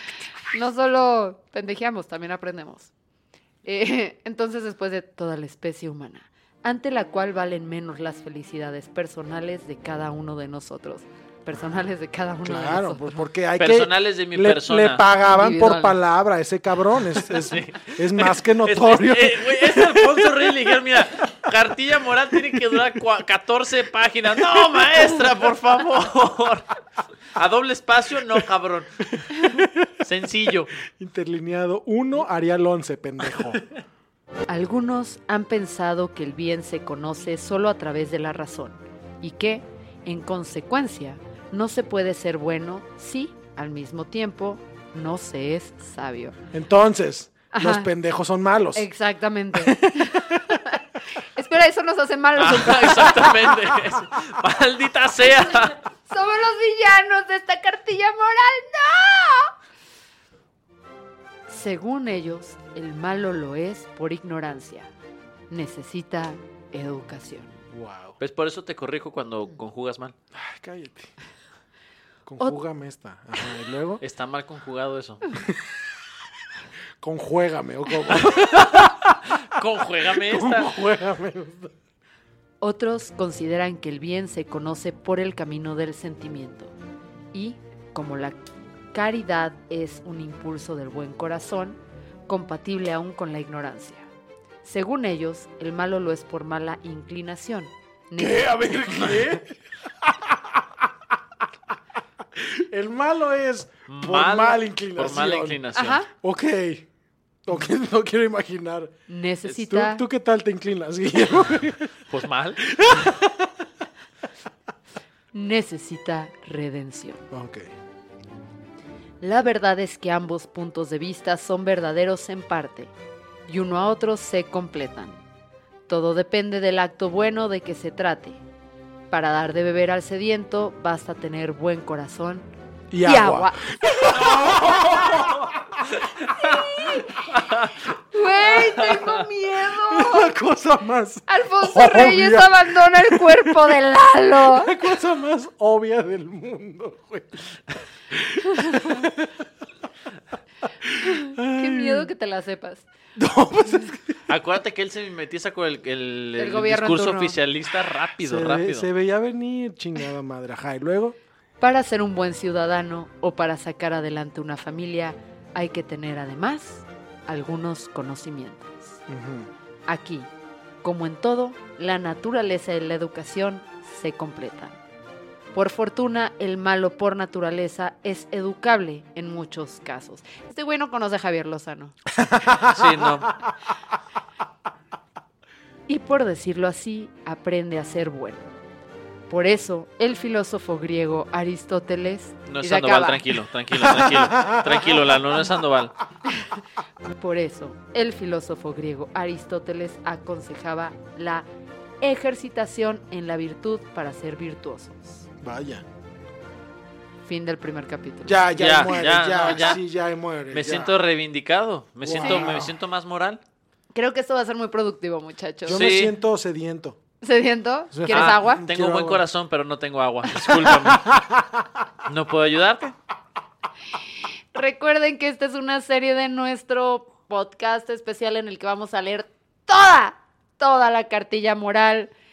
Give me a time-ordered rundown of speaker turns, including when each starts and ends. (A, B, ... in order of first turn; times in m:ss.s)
0:00.5-0:02.9 A
0:03.6-0:13.2 A
0:12.4-0:20.5 B
0:13.6-0:15.0 C
0:15.2-0:16.0 A
0:17.1-0:26.8 C
0:27.3-0:29.0 C
0:29.2-0:29.9 B
0:30.0-0:30.7 C
0:31.0-0:33.6 B
0:34.5-0:46.4 A
0:46.5-0:48.9 B
0:47.5-0:47.9 A
0:48.7-0:53.5 A
0:49.6-0:50.5 B
0:52.4-0:55.8 C
0:56.1-0:59.5 A
1:01.5-1:04.9 A
1:05.5-1:07.6 A
1:07.7-1:08.2 B
1:08.2-1:10.1 C
1:10.3-1:11.1 B
1:12.3-1:14.0 B
1:14.0-1:15.4 C
1:17.0-1:19.2 B
1:18.1-1:20.8 C
1:20.2-1:21.7 B
1:22.6-1:26.7 A
1:27.3-1:34.1 A
1:34.6-1:38.4 A
1:38.2-1:40.6 B
1:42.4-1:46.9 B
1:43.9-1:46.0 C
1:45.7-1:46.1 A
1:47.5-1:52.0 B
1:49.1-1:50.0 A
1:52.1-1:52.6 C
1:52.6-1:53.6 B
1:55.3-1:57.2 A
1:57.3-1:57.7 B
1:59.2-2:02.9 A
2:03.5-2:05.2 A
2:05.9-2:08.4 A
2:09.1-2:12.5 A
2:12.9-2:15.4 B
2:13.0-2:15.2 A
2:14.3-2:15.4 C
2:16.2-2:17.4 A
2:17.3-2:17.7 C
2:18.0-2:20.3 A
2:19.7-2:23.6 B
2:21.3-2:24.7 A
2:24.4-2:27.5 B
2:28.1-2:29.4 B
2:30.8-2:32.1 B
2:31.1-2:32.9 A
2:33.2-2:34.2 B
2:34.3-2:38.9 C
2:36.4-2:37.4 A
2:38.2-2:41.2 B
2:41.6-2:49.0 A
2:49.1-2:49.5 B
2:49.9-2:50.3 A
2:50.8-2:54.8 A
2:55.5-3:02.0 A
3:02.2-3:02.9 B
3:02.5-3:03.3 C
3:05.9-3:08.5 A
3:09.3-3:13.2 A
3:12.5-3:16.0 C
3:13.8-3:15.0 B
3:17.1-3:21.5 A
3:22.0-3:25.3 A
3:25.4-3:25.8 B
3:27.2-3:28.5 A
3:28.2-3:30.9 B
3:28.6-3:29.8 C
3:30.5-3:33.4 C
3:32.0-3:32.8 B
3:32.0-3:32.5 A
3:33.9-3:35.9 A
3:35.6-3:37.0 B
3:35.7-3:36.2 C
3:37.2-3:38.7 A
3:37.9-3:39.2 B
3:38.1-3:41.1 C
3:40.4-3:41.6 B
3:42.0-3:43.0 C
3:44.5-3:52.1 A